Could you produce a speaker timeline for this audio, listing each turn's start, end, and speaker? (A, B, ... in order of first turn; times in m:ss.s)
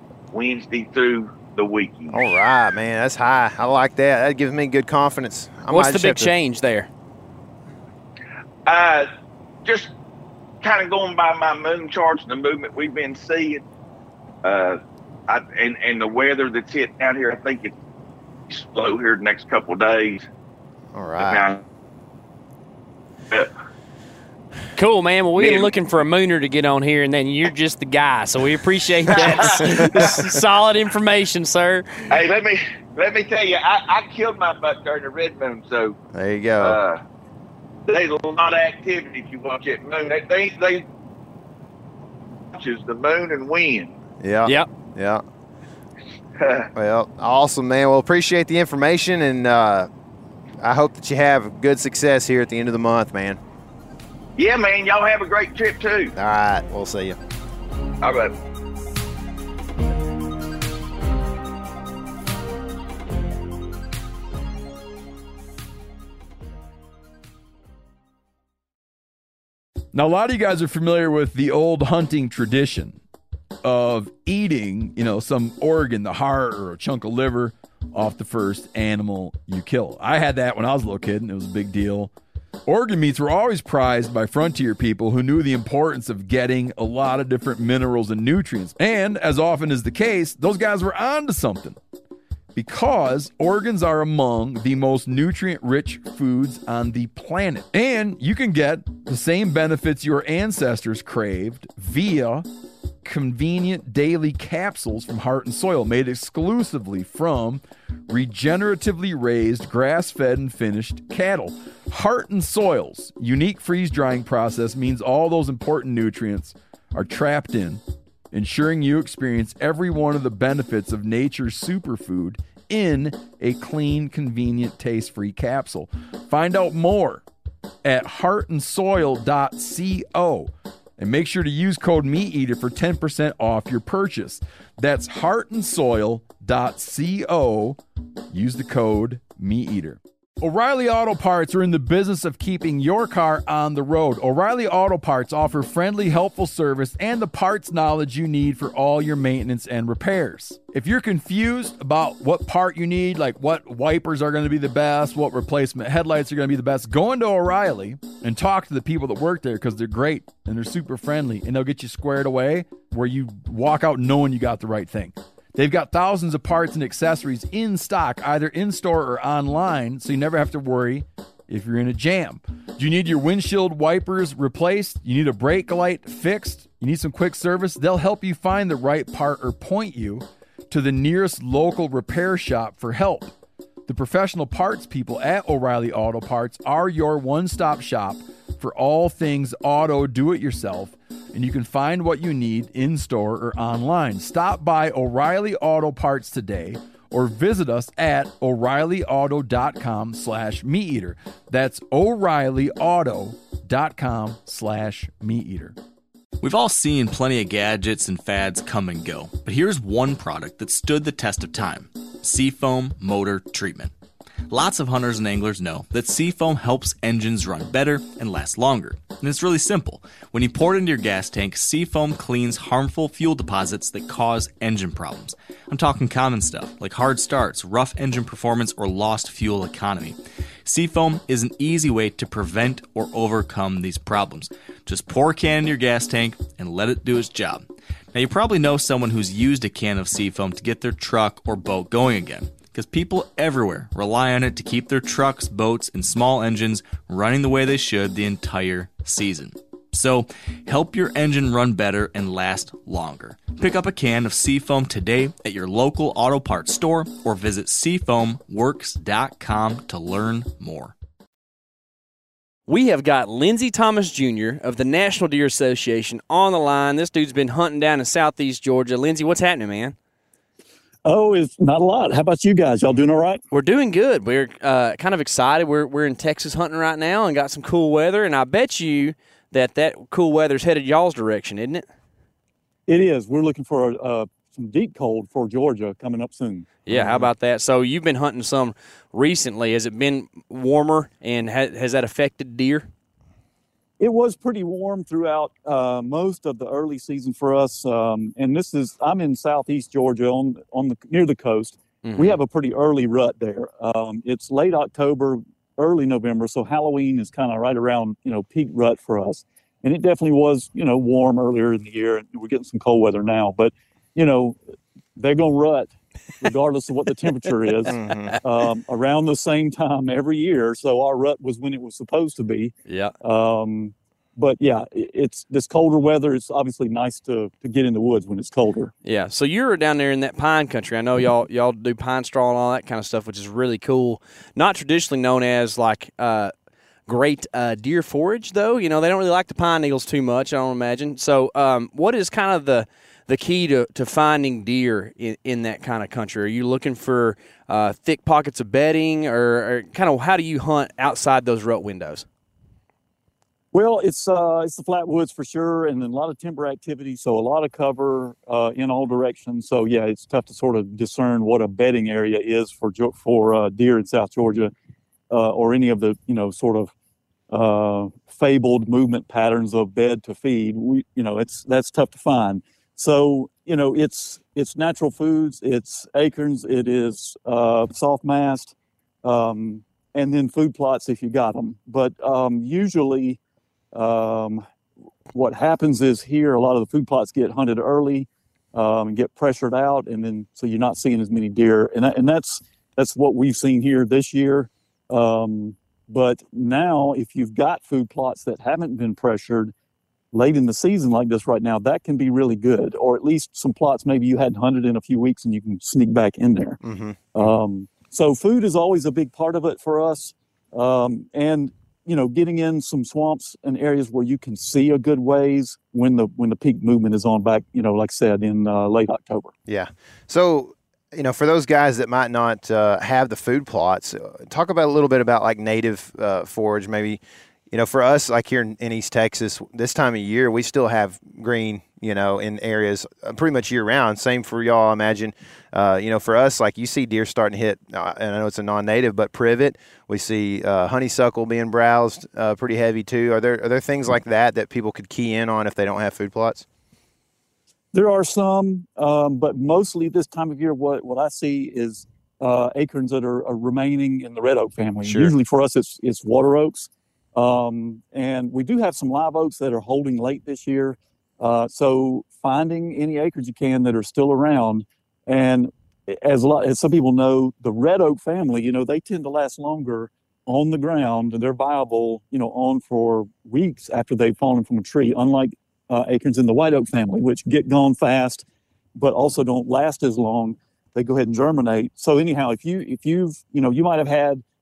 0:00.3-0:02.2 A
0:02.1-0:06.3 B
0:05.7-0:06.9 C
0:08.6-0:09.1 A
0:09.6-0:09.9 A
0:10.6-0:13.6 A
0:14.4-0:17.8 A
0:18.5-0:20.3 A
0:20.9-0:21.5 B
0:21.2-0:21.6 A
0:24.8-0:32.1 C
0:25.4-0:25.7 A
0:29.1-0:30.2 A
0:32.1-0:36.0 A
0:36.1-0:36.8 B
0:36.6-0:37.0 A
0:37.8-0:40.9 A
0:42.5-0:44.0 A
0:44.2-0:45.2 B
0:46.4-0:46.7 A
0:46.7-0:49.9 B
0:50.6-0:53.4 B
0:54.4-0:56.1 A
0:56.1-0:57.2 B
0:58.0-0:58.3 A
1:09.9-1:13.0 D
1:13.6-1:22.1 D
1:22.6-1:31.8 D
1:32.5-1:42.4 D
1:43.0-2:07.2 D
2:07.8-2:17.8 D
2:18.3-3:03.3 D
3:03.9-3:25.7 D
3:26.4-3:33.9 E
3:34.5-4:20.9 E
4:22.7-4:29.9 C
4:31.0-4:33.4 F
4:33.5-4:41.8 C
4:42.9-4:46.8 F
4:46.8-4:52.9 C
4:46.9-4:47.3 B
4:54.0-5:14.6 F
5:02.0-5:02.4 C
5:15.2-5:28.9 F
5:17.8-5:18.3 C
5:17.9-5:18.4 B
5:22.9-5:23.1 C
5:29.0-5:36.5 C
5:37.1-5:52.2 C
5:53.7-6:04.7 F
6:05.3-6:06.9 F
6:07.5-6:23.4 F
6:23.9-6:24.6 F
6:25.3-6:39.7 F
6:40.3-6:46.8 F
6:46.8-6:47.5 B
6:47.3-6:59.5 F
6:59.7-7:26.6 B
7:27.9-7:58.4 F
7:35.0-7:35.3 C
7:59.0-8:04.4 F